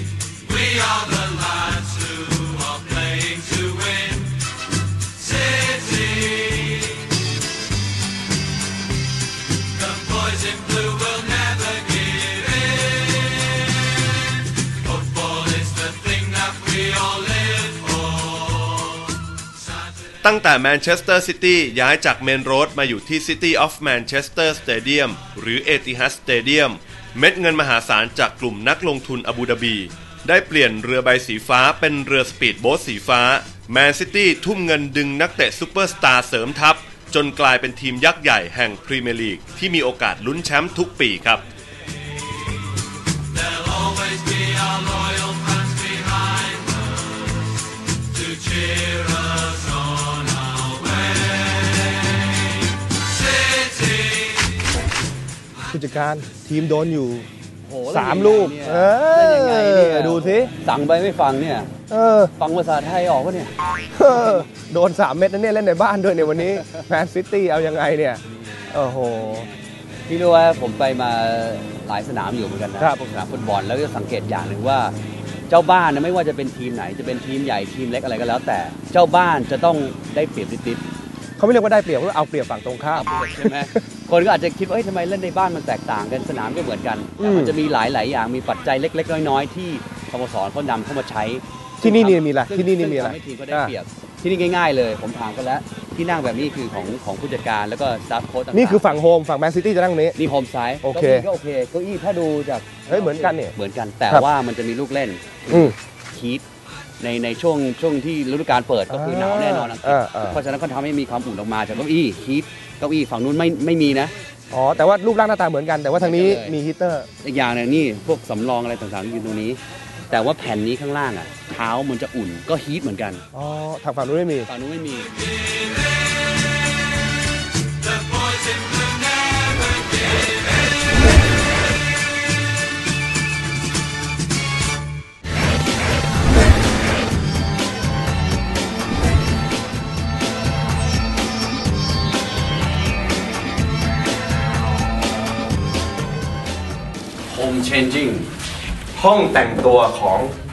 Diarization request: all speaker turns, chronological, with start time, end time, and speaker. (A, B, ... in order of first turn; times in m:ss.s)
0:00.7-0:04.1 A
0:20.2-0:41.4 B
0:55.7-0:57.3 C
0:57.6-1:01.7 A
0:57.9-1:00.5 C
1:01.9-1:02.3 C
1:02.4-1:03.5 A
1:04.0-1:08.2 C
1:08.7-1:09.5 C
1:10.1-1:14.9 A
1:12.8-1:13.0 C
1:15.5-1:20.8 A
1:21.4-1:23.8 C
1:22.9-1:38.9 A
1:27.2-1:27.6 C
1:31.8-1:33.7 C
1:38.5-1:40.2 C
1:40.2-1:45.6 A
1:40.8-1:41.3 C
1:42.9-1:43.5 C
1:45.5-1:45.8 C
1:46.1-1:46.4 A
1:47.0-1:54.1 A
1:48.9-1:50.4 C
1:54.5-1:57.1 C
1:56.0-1:56.6 A
1:57.2-1:59.6 A
2:00.1-2:03.2 A
2:03.3-2:04.5 C
2:04.5-2:05.3 A
2:27.3-2:28.3 A
2:29.0-2:30.3 C